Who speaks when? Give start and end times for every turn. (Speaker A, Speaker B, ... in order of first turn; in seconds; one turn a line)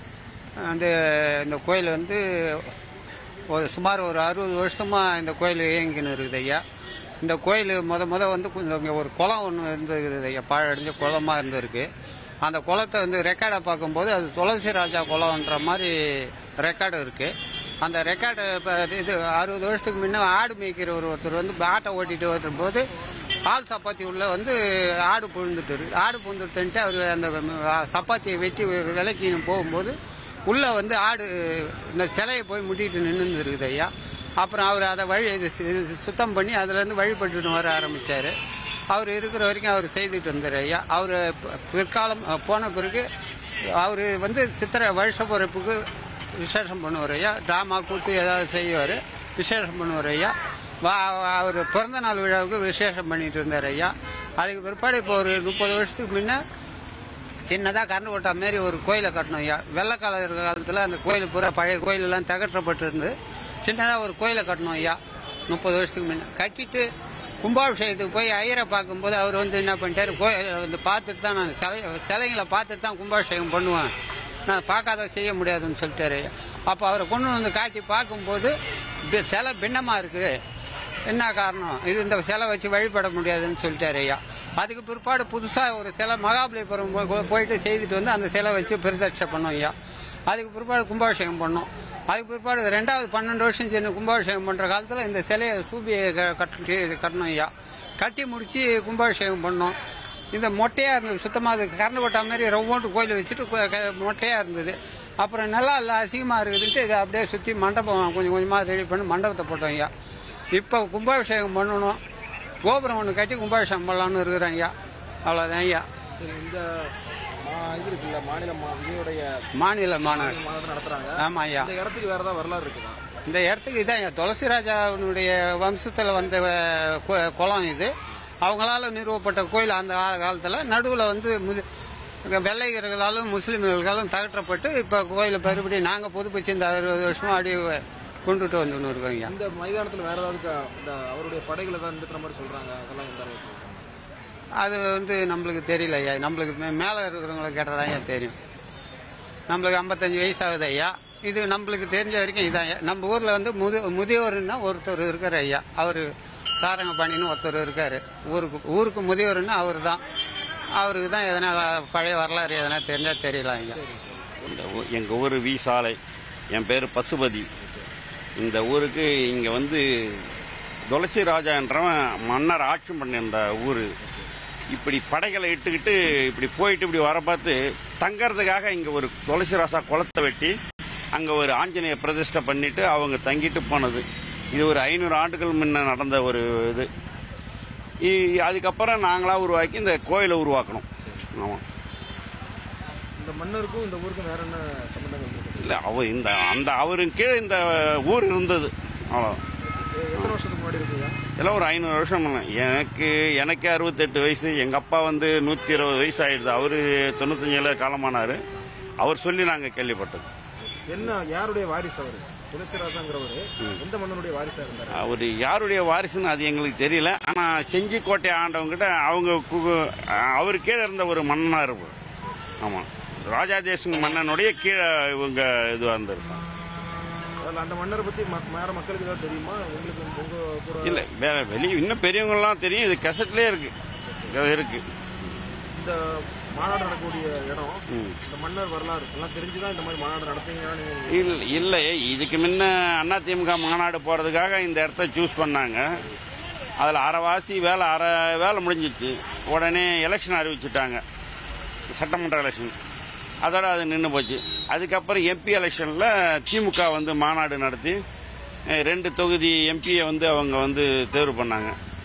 Speaker A: 0.6-2.7
Speaker A: 3.5-6.6
Speaker A: 7.2-11.9
Speaker A: 12.4-22.8
Speaker A: 23.5-29.9
Speaker A: 30.5-33.9
Speaker A: 34.4-38.3
Speaker A: 38.9-43.0
Speaker A: 43.7-45.8
Speaker A: 46.4-56.4
Speaker A: 57.5-65.0
Speaker A: 65.5-66.8
Speaker A: 67.4-73.9
Speaker A: 74.5-78.5
Speaker A: 79.1-80.4
Speaker A: 81.1-89.7
Speaker A: 90.3-97.5
Speaker A: 98.0-99.7
Speaker A: 100.3-109.9
Speaker A: 110.5-112.0
Speaker A: 112.6-114.7
Speaker A: 115.2-115.8
Speaker B: 116.2-119.4
Speaker A: 119.5-120.4
Speaker B: 120.0-123.0
Speaker A: 121.2-121.7
Speaker A: 123.2-127.9
Speaker A: 128.4-131.6
Speaker A: 132.2-139.3
Speaker B: 139.2-143.8
Speaker A: 144.6-148.3
Speaker A: 149.5-156.1
Speaker A: 156.6-160.0
Speaker A: 160.8-163.8
Speaker B: 163.7-164.2
Speaker C: 164.4-166.0
Speaker C: 166.5-167.5
Speaker C: 168.4-170.3
Speaker C: 170.9-173.9
Speaker C: 174.7-180.5
Speaker C: 181.1-186.9
Speaker C: 188.0-191.6
Speaker B: 193.2-195.8
Speaker C: 195.6-199.4
Speaker B: 199.8-201.2
Speaker C: 201.4-208.4
Speaker C: 209.0-210.3
Speaker B: 210.9-215.1
Speaker C: 214.9-221.9
Speaker C: 222.6-226.4
Speaker B: 227.4-231.0
Speaker C: 230.8-233.7
Speaker C: 234.3-234.8
Speaker B: 235.7-241.6
Speaker C: 237.9-238.2
Speaker C: 241.1-246.0
Speaker C: 246.8-251.0
Speaker C: 251.9-252.7
Speaker C: 253.4-258.0
Speaker C: 258.7-261.7